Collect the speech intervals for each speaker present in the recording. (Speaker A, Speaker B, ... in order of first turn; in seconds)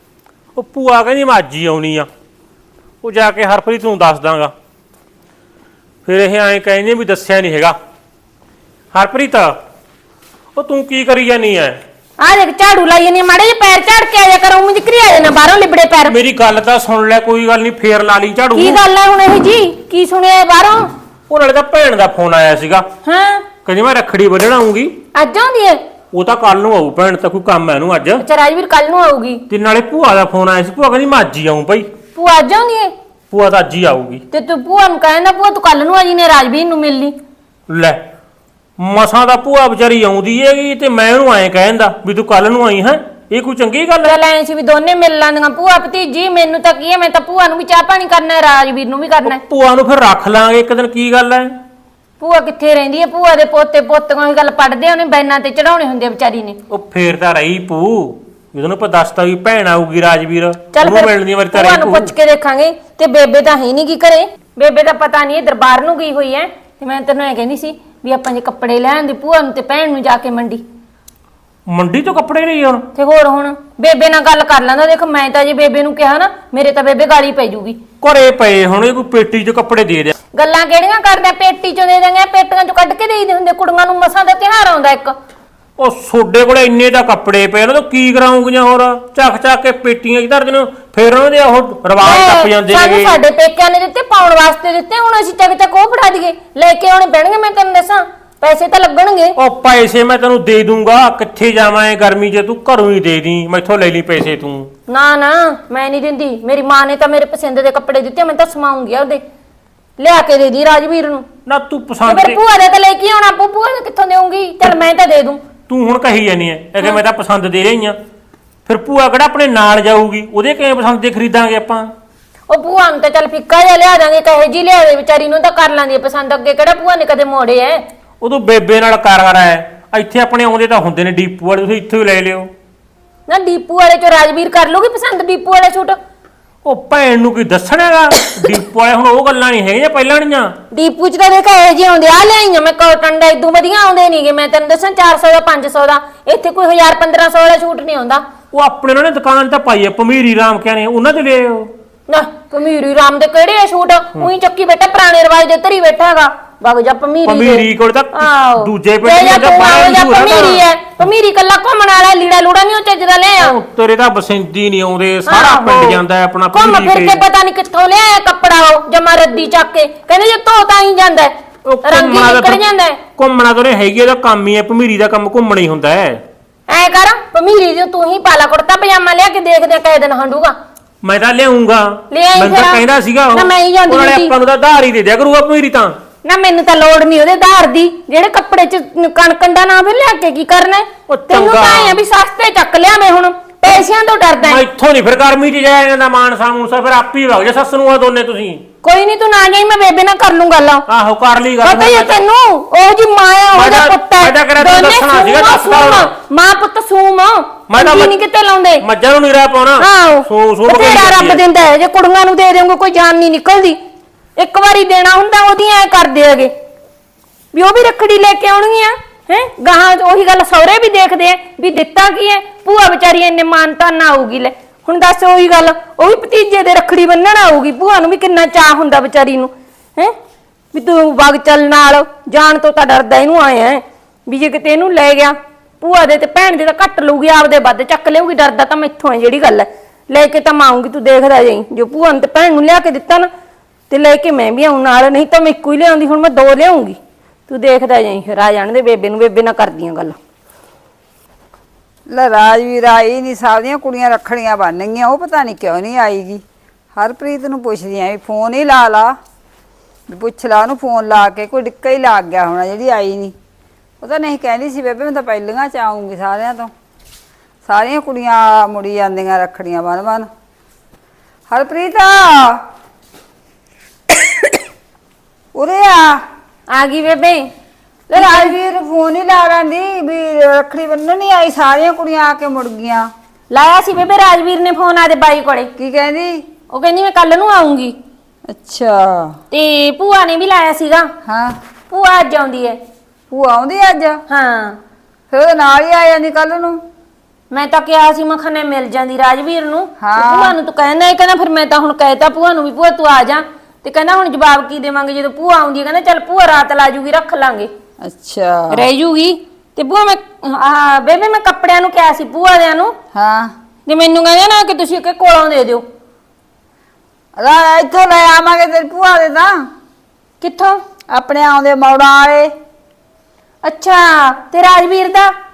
Speaker A: 0.6-2.1, 3.0-4.5, 6.0-7.8, 8.9-9.6, 10.6-11.8, 16.1-18.8, 21.3-22.9, 23.6-24.9, 26.1-28.2, 29.5-31.9, 33.3-34.2, 37.7-38.0, 38.8-44.1, 49.2-51.6, 56.7-62.1, 71.7-72.9, 78.0-80.2, 85.8-93.2, 99.4-104.7, 111.5-112.4, 115.7-118.0, 118.7-121.9, 128.2-132.5, 136.6-140.6, 148.5-151.7, 157.2-161.1, 163.4-167.2, 171.7-172.6, 173.2-176.2, 181.0-186.0, 191.2-192.0, 194.4-198.6, 200.9-202.2, 203.5-206.1, 207.7-208.2, 208.8-211.4
Speaker B: 12.2-16.2, 18.6-20.9, 23.1-23.5, 25.1-25.8, 28.2-29.4, 32.2-32.9, 34.3-37.1, 44.0-49.4, 52.2-56.6, 60.7-70.6, 73.0-77.8, 80.3-85.2, 92.0-99.4, 104.9-109.2, 110.0-111.3, 112.1-115.4, 122.5-127.8, 133.3-136.0, 140.7-148.2, 152.1-163.6, 165.3-166.0, 166.5-173.0, 176.7-180.6, 182.1-184.3, 186.2-194.6, 198.8-200.9, 201.6-208.8, 209.8-213.8, 214.4-216.5, 217.5-230.2, 230.7-243.3, 243.9-250.2, 276.7-277.5, 278.1-278.6, 283.5-285.7, 286.7-288.0, 289.5-291.1, 291.9-292.8, 294.3-294.8, 297.5-307.7, 308.7-312.9, 313.9-315.8, 320.4-320.8, 323.6-325.3
Speaker C: 252.1-256.4, 257.0-259.2, 260.1-263.4, 264.0-266.7, 267.6-270.3, 271.5-272.6, 275.6-276.2, 278.1-283.1, 285.8-286.4, 288.5-289.4, 291.2-291.6, 293.3-294.2, 295.3-296.8, 300.0-300.6, 308.0-308.9, 313.1-313.5, 317.4-319.7, 321.1-322.5